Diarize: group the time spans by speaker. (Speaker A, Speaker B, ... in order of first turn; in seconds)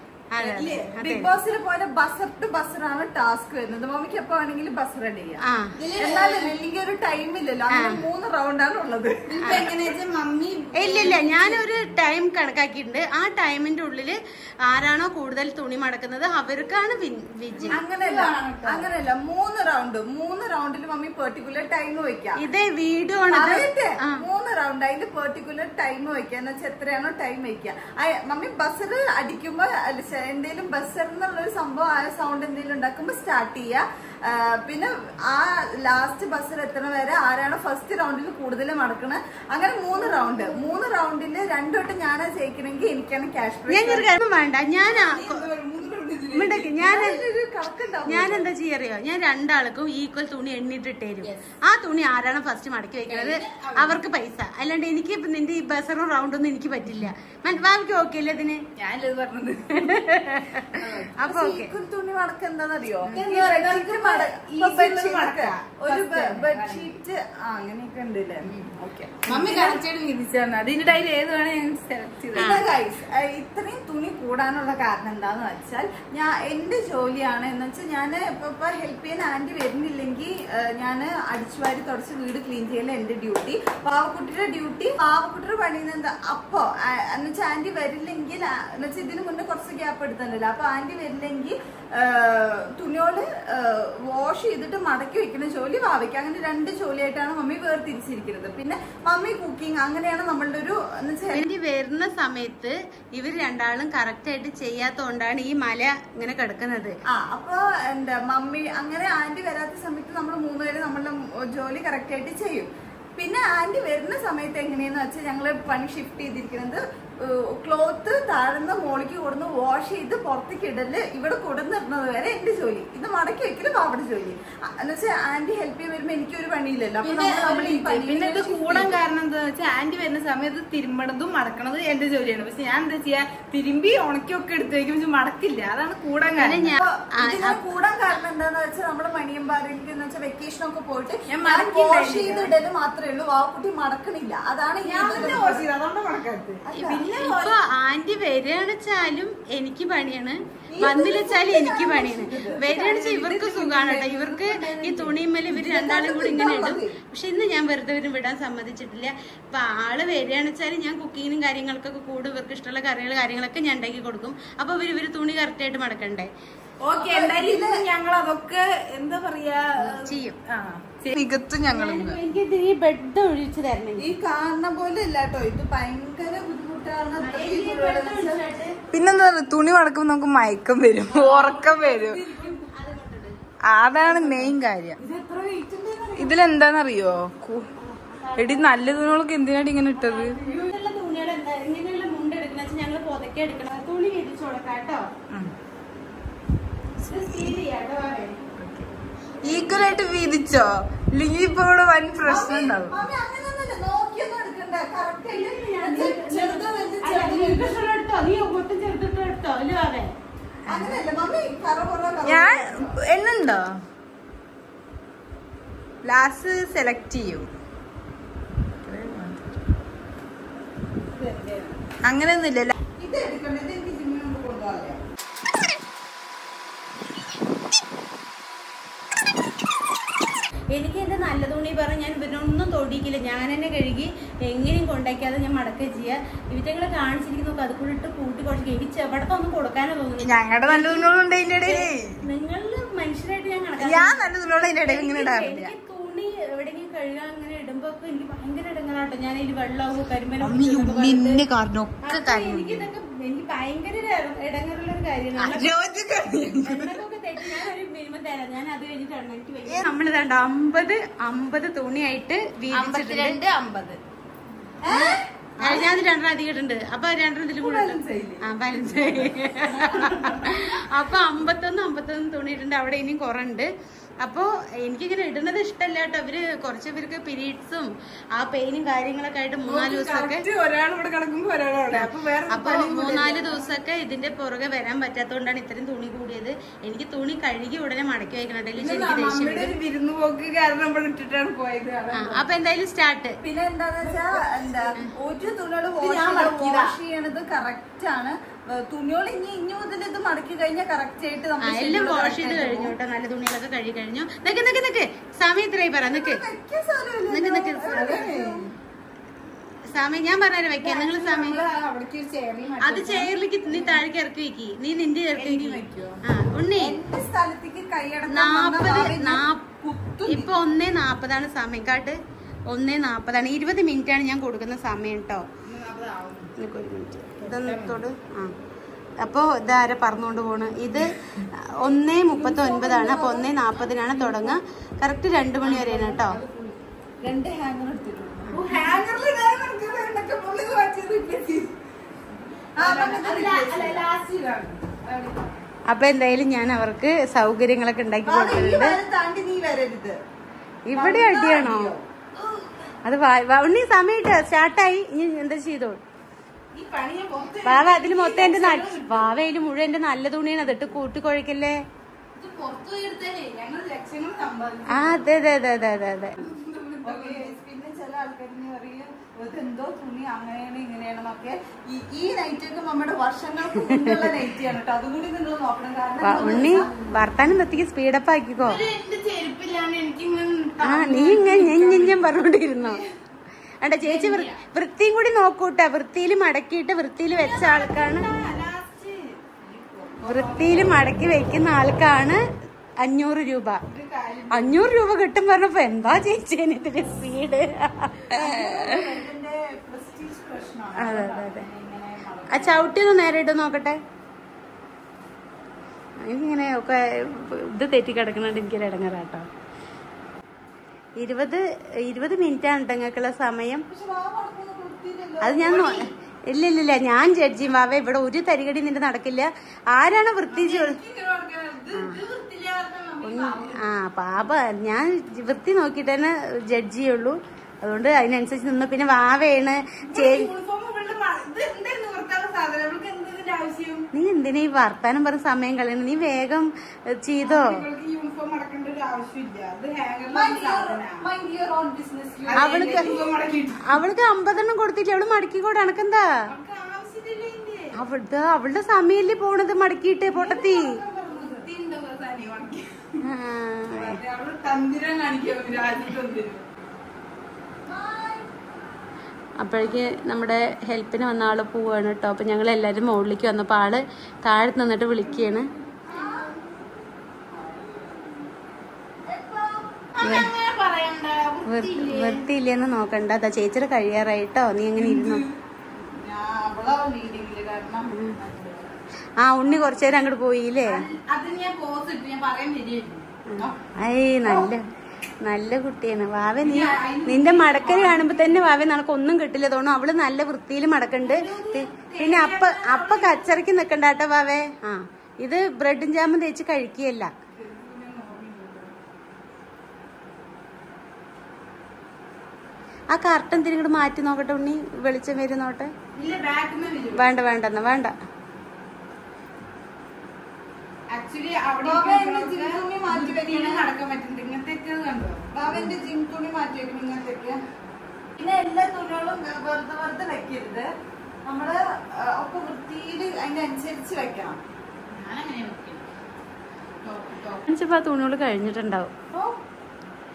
Speaker A: 0.3-1.3, 5.4-5.7, 7.7-8.0, 10.8-17.8, 22.4-24.2, 43.7-45.5, 46.3-47.2, 48.1-58.6, 59.7-61.7, 72.3-72.6, 101.3-107.0, 136.4-137.6, 146.8-166.3, 169.8-170.4, 171.7-174.1, 177.2-178.8, 181.1-183.4, 187.8-188.7, 189.9-195.1, 197.1-198.4, 205.3-210.1, 230.7-241.1, 241.6-251.4, 252.0-255.7, 256.6-263.4, 264.9-273.7, 274.2-280.4, 281.9-289.7, 292.1-293.4, 296.0-296.9, 301.6-306.4, 307.3-308.3, 309.9-311.6, 312.8-317.0, 318.3-319.7, 320.2-322.2, 322.7-325.5, 326.6-328.5, 329.2-336.4, 345.9-349.0, 350.9-351.9, 353.1-356.0, 357.7-361.8, 364.9-366.4, 373.8-374.2, 376.2-378.8, 380.8-383.0, 383.8-388.3, 390.2-392.4, 393.0-393.8, 394.5-399.0, 401.0-401.7, 402.5-404.0, 406.2-409.5, 411.2-413.9, 415.4-416.0, 416.5-421.0, 423.2-430.5, 434.1-437.8, 442.6-443.3, 443.8-446.3, 447.9-451.0, 453.2-454.2, 459.6-465.7, 470.2-470.5, 471.7-475.4, 479.4-481.1, 483.5-484.8, 485.4-497.3, 503.1-505.9, 507.1-508.1, 527.6-529.1
Speaker B: 0.4-1.0, 5.8-6.5, 9.3-11.6, 17.6-18.9, 40.0-40.7, 44.9-46.7, 51.2-51.5, 53.1-54.0, 58.8-60.1, 60.6-61.1, 63.1-66.9, 69.2-72.6, 127.0-136.8, 141.3-142.6, 144.8-147.4, 152.8-155.0, 166.8-172.2, 178.9-182.2, 183.7-185.0, 186.2-187.7, 188.4-190.4, 197.1-197.6, 199.4-203.0, 210.7-210.9, 212.2-213.8, 216.0-217.5, 218.8-219.4, 222.0-222.8, 240.2-242.2, 243.8-245.7, 250.4-252.8, 255.4-257.0, 262.7-264.0, 279.7-283.5, 288.8-292.5, 307.9-308.6, 310.8-314.0, 315.4-316.2, 325.6-326.5, 327.4-328.0, 332.5-334.5, 335.6-336.8, 338.5-341.8, 342.8-345.7, 352.3-352.9, 356.7-359.4, 362.4-365.2, 366.4-367.5, 378.6-382.3, 384.0-384.6, 387.4-391.1, 393.8-394.9, 402.3-402.6, 420.5-423.9, 430.1-434.1, 437.4-441.3, 442.4-444.0, 446.5-447.9, 451.3-453.3, 453.9-456.6, 465.9-466.8, 470.1-472.4, 475.0-475.4, 479.7-480.0, 480.9-483.3, 486.6-488.8, 491.2-493.6, 497.6-498.9, 506.1-507.3, 511.1-515.4, 525.1-526.0, 527.0-527.6
Speaker C: 1.0-5.4, 6.0-9.9, 17.7-22.4, 23.3-44.1, 46.8-48.5, 61.2-69.8, 72.3-101.5, 107.1-128.9, 136.8-145.7, 146.7-147.5, 150.7-152.8, 155.5-157.0, 166.9-167.9, 174.0-178.4, 184.0-186.4, 202.2-207.9, 210.7-213.0, 221.1-221.8, 223.0-225.0, 264.8-266.0, 267.6-270.8, 293.4-302.9, 306.0-308.6, 316.8-320.6, 332.4-333.6, 337.2-338.8, 342.8-344.1, 348.2-350.2, 350.9-352.1, 367.0-376.9, 398.3-402.8, 413.9-416.1, 440.3-443.0, 450.3-451.7, 457.8-458.6, 466.1-466.6, 467.5-468.5, 469.3-470.1, 476.0-478.9, 511.8-513.9, 515.5-517.6, 518.4-520.9, 521.5-524.6, 529.3-529.6